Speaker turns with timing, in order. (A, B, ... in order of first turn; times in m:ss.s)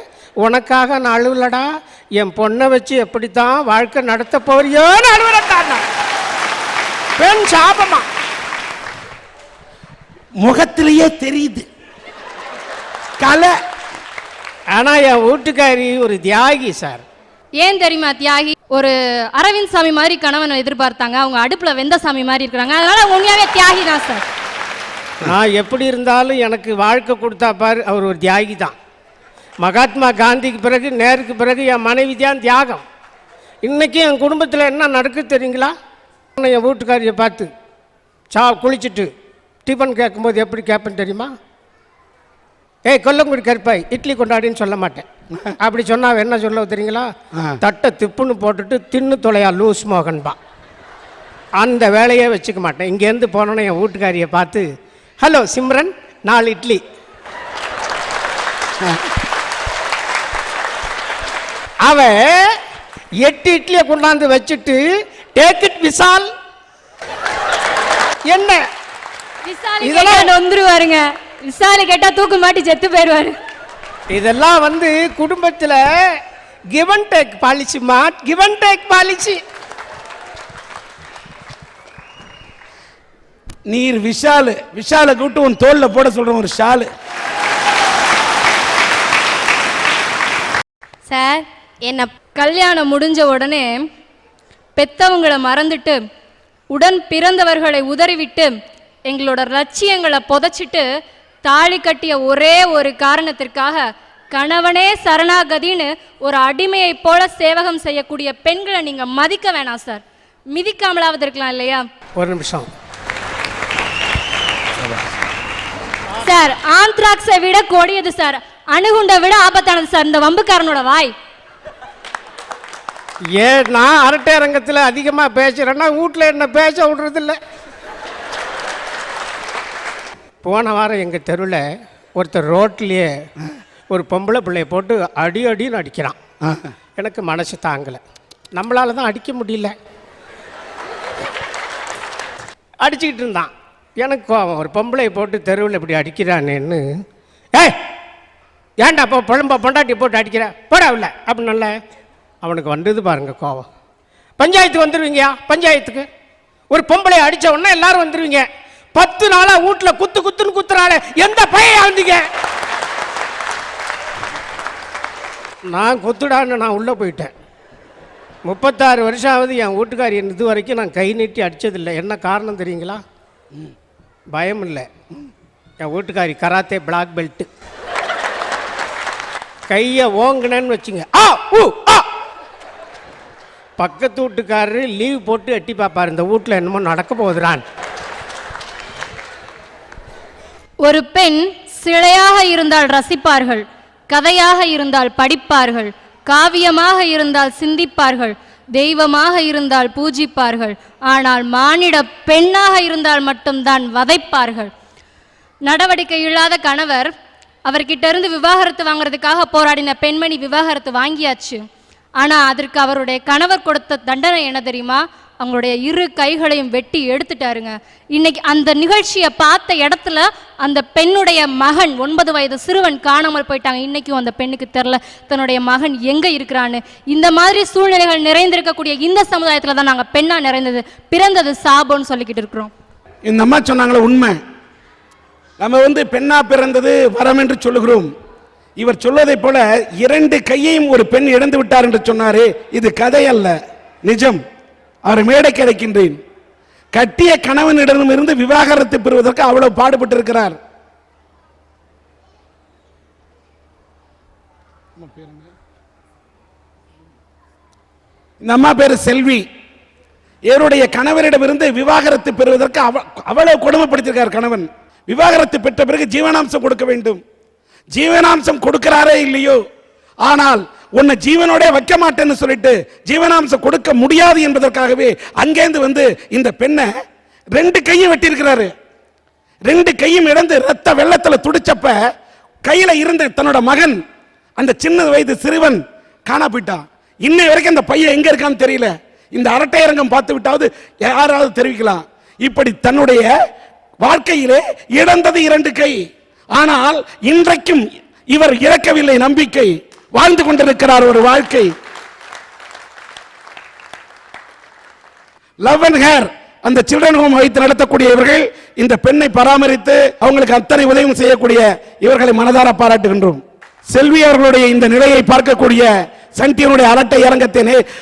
0:00.4-0:05.8 A
0:07.2-0:08.0 A
0:10.4-0:11.6 B
0:13.2-0:13.5 B
0:14.7-0:17.0 A
0:17.6-0:24.2 C
0:25.2-0:28.7 A
0:29.6-0:32.8 A
0:33.6-0:35.7 A
0:36.4-0:37.5 A
0:38.3-0:39.1 A
0:39.6-0:41.3 A
0:42.8-0:45.1 A
0:45.6-0:47.1 A
0:47.6-0:50.4 A
0:51.6-0:54.6 A
0:55.2-0:56.8 A
1:01.8-1:02.5 A
1:03.2-1:06.3 A
1:08.3-1:08.6 A
1:09.4-1:13.3 C
1:09.8-1:10.3 A
1:14.1-1:16.2 A
1:16.7-1:19.4 A
1:23.7-1:26.9 B
1:31.1-1:33.7 C
1:34.8-1:36.0 C
1:36.7-1:38.5 C
1:39.1-1:40.8 C
1:41.4-1:51.8 C
1:52.2-1:52.7 A
1:56.2-2:01.1 C
2:03.4-2:07.4 A
2:10.4-2:11.6 A
2:12.2-2:13.1 A
2:13.9-2:16.2 A
2:16.4-2:16.7 B
2:17.0-2:18.0 A
2:18.5-2:19.8 A
2:22.8-2:26.8 A
2:28.8-2:31.7 A
2:32.4-2:33.7 A
2:34.4-2:36.1 A
2:36.7-2:42.2 A
2:45.7-2:47.3 A
2:48.4-2:53.0 A
2:54.3-2:54.9 A
2:55.8-2:57.5 A
2:59.7-3:02.0 A
3:03.8-3:07.6 A
3:10.8-3:24.7 C
3:25.6-3:27.1 C
3:27.6-3:31.6 C
3:32.2-3:52.7 C
3:53.2-3:54.4 B
3:55.6-3:58.1 B
3:58.8-4:04.4 B
4:05.0-4:06.2 B
4:06.9-4:10.6 B
4:15.0-4:15.5 B
4:18.4-4:19.4 B
4:20.5-4:27.2 B
4:27.9-4:29.6 B
4:30.2-4:36.9 B
4:37.6-4:38.7 B
4:39.6-4:42.0 B
4:42.6-4:44.0 B
4:44.6-4:53.3 B
4:54.0-4:56.0 B
4:56.5-5:01.7 B
5:05.6-5:17.8 B